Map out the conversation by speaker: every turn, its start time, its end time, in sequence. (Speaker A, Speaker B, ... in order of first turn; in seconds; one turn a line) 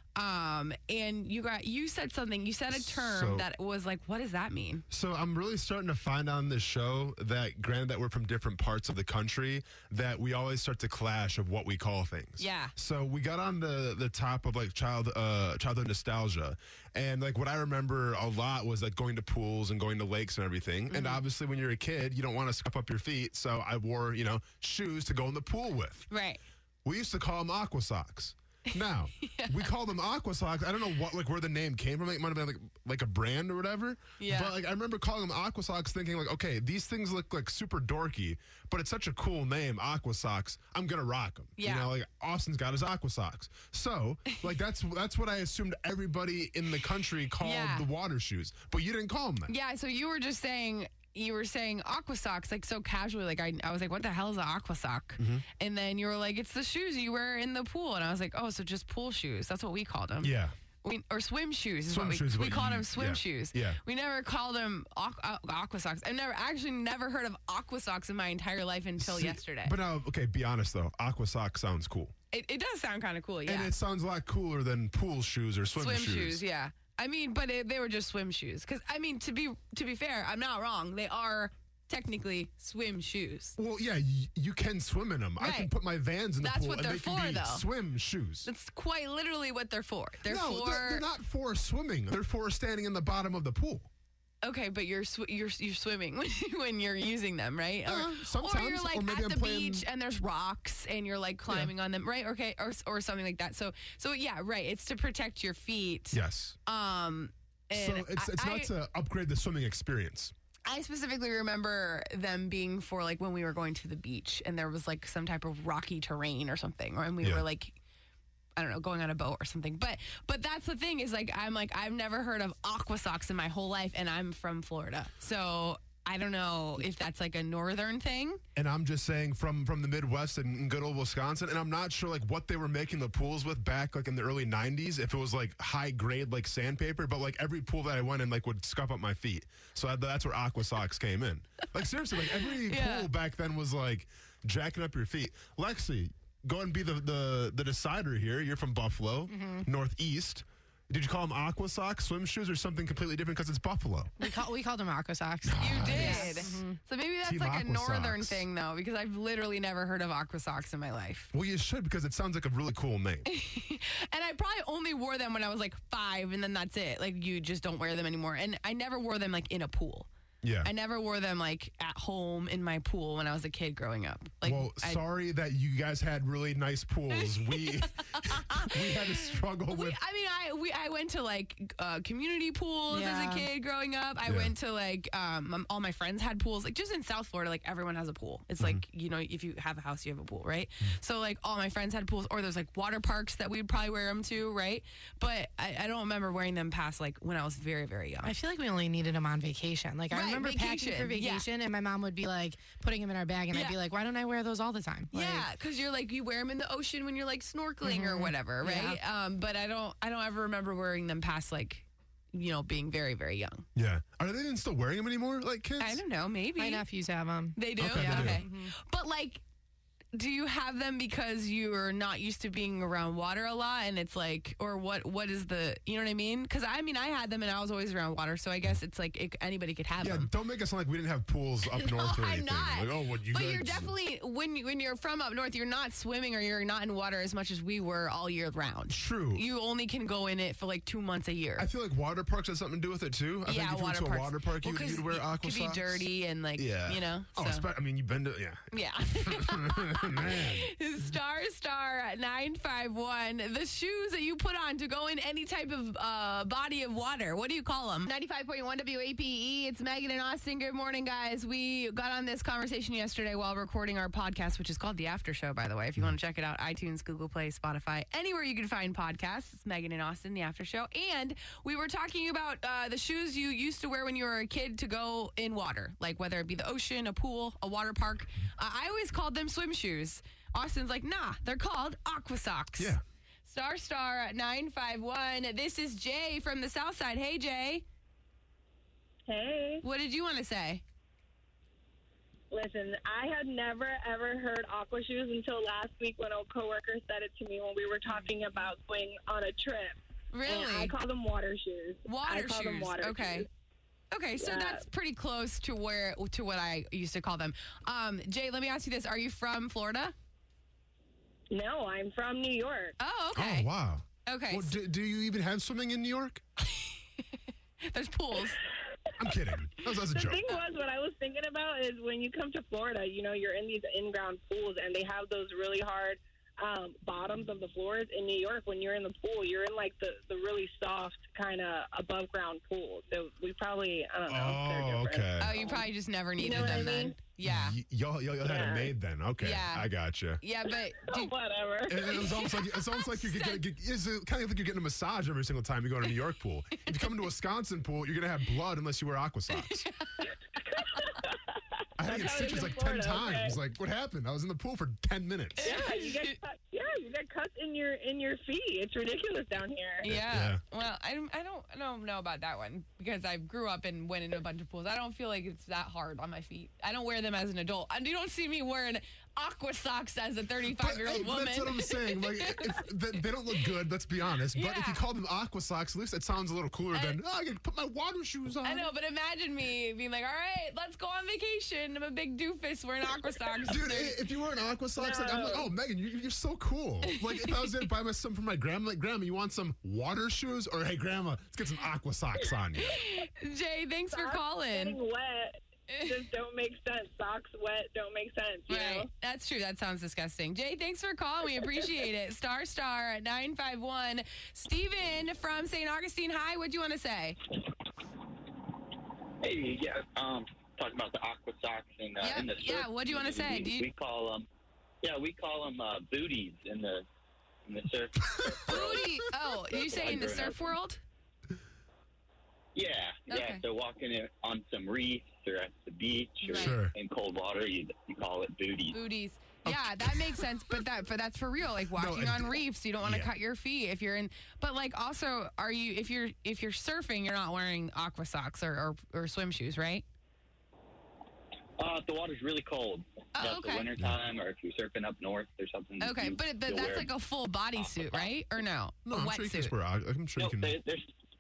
Speaker A: 0.2-4.8
Speaker B: 2.7-3.5
Speaker B: 4.9-26.1
Speaker A: 12.4-12.7
Speaker A: 20.9-21.2
Speaker A: 26.1-26.4
Speaker B: 26.9-49.5
Speaker A: 28.7-29.7
Speaker A: 34.2-34.5
Speaker A: 41.6-41.9
Speaker A: 47.4-47.9
Speaker A: 49.5-69.8
Speaker B: 55.2-55.4
Speaker B: 60.2-60.5
Speaker B: 61.9-63.8
Speaker B: 69.0-72.1
Speaker A: 72.3-73.7
Speaker B: 73.5-76.4
Speaker A: 75.8-83.6
Speaker B: 83.6-88.5
Speaker A: 85.4-85.7
Speaker A: 86.4-87.7
Speaker A: 88.5-91.1
Speaker B: 90.2-93.9
Speaker A: 94.4-108.7
Speaker B: 97.9-99.9
Speaker B: 106.1-106.6
Speaker B: 107.7-110.3
Speaker A: 110.7-117.8
Speaker A: 118.6-128.4
Speaker B: 128.6-154.1
Speaker A: 142.6-143.1
Speaker C: 149.3-149.7
Speaker C: 154.2-156.8
Speaker B: 155.4-156.4
Speaker A: 155.6-161.3
Speaker B: 157.2-158.5
Speaker B: 161.3-163.3
Speaker A: 163.3-170.1
Speaker B: 170.4-170.7
Speaker A: 170.6-175.0
Speaker B: 174.4-180.0
Speaker A: 177.2-198.3
Speaker C: 182.9-183.5
Speaker B: 184.2-184.5
Speaker C: 198.2-205.5
Speaker A: 200.1-201.5
Speaker A: 203.5-203.8
Speaker A: 205.1-213.7
Speaker C: 207.8-209.0
Speaker B: 213.8-216.0
Speaker A: 215.8-216.8
Speaker C: 216.6-218.7
Speaker A: 217.6-219.4
Speaker B: 217.8-218.4
Speaker A: 220.1-230.3
Speaker B: 230.0-233.9
Speaker A: 231.8-241.7
Speaker B: 238.9-239.4
Speaker B: 241.6-250.7
Speaker A: 243.4-247.7
Speaker A: 248.7-287.8
Speaker B: 282.8-283.0
Speaker D: 289.3-289.8
Speaker A: 289.8-290.8
Speaker D: 292.5-303.5
Speaker A: 300.3-300.9
Speaker A: 302.1-303.5
Speaker A: 304.1-310.1
Speaker D: 304.4-304.8
Speaker D: 311.5-313.0
Speaker A: 313.0-313.7
Speaker B: 313.4-316.4
Speaker A: 314.3-314.7
Speaker A: 316.7-318.6
Speaker B: 319.2-320.4
Speaker D: 320.0-335.9
Speaker B: 334.3-335.5
Speaker A: 335.4-337.8
Speaker D: 336.4-337.2
Speaker B: 336.5-336.9
Speaker B: 337.4-340.4
Speaker D: 338.4-338.9
Speaker A: 339.4-339.9
Speaker A: 340.4-341.3
Speaker D: 341.0-342.6
Speaker B: 341.9-349.8
Speaker A: 342.9-343.6
Speaker A: 349.5-350.3
Speaker D: 350.6-353.6
Speaker B: 352.0-355.8
Speaker A: 355.6-356.4
Speaker D: 355.6-360.1
Speaker A: 360.0-372.9
Speaker B: 360.1-360.6
Speaker B: 370.7-378.9
Speaker A: 374.5-375.0
Speaker A: 376.9-377.2
Speaker A: 378.6-384.2
Speaker B: 383.7-392.9
Speaker D: 385.0-385.7
Speaker A: 387.1-387.5
Speaker A: 392.8-395.0
Speaker D: 394.1-399.1
Speaker A: 398.7-407.4
Speaker E: 409.4-414.5
Speaker A: 412.2-413.9
Speaker E: 415.0-417.1
Speaker E: 417.7-419.1
Speaker B: 418.4-419.2
Speaker A: 418.6-421.0
Speaker E: 419.7-420.8
Speaker E: 422.8-429.0
Speaker A: 423.3-423.6
Speaker A: 426.4-426.8
Speaker B: 426.5-426.9
Speaker A: 428.9-440.1
Speaker B: 429.6-430.8
Speaker B: 431.9-433.3
Speaker E: 441.8-447.1
Speaker A: 443.4-443.9
Speaker A: 446.0-449.7
Speaker B: 449.1-450.8
Speaker E: 450.4-451.1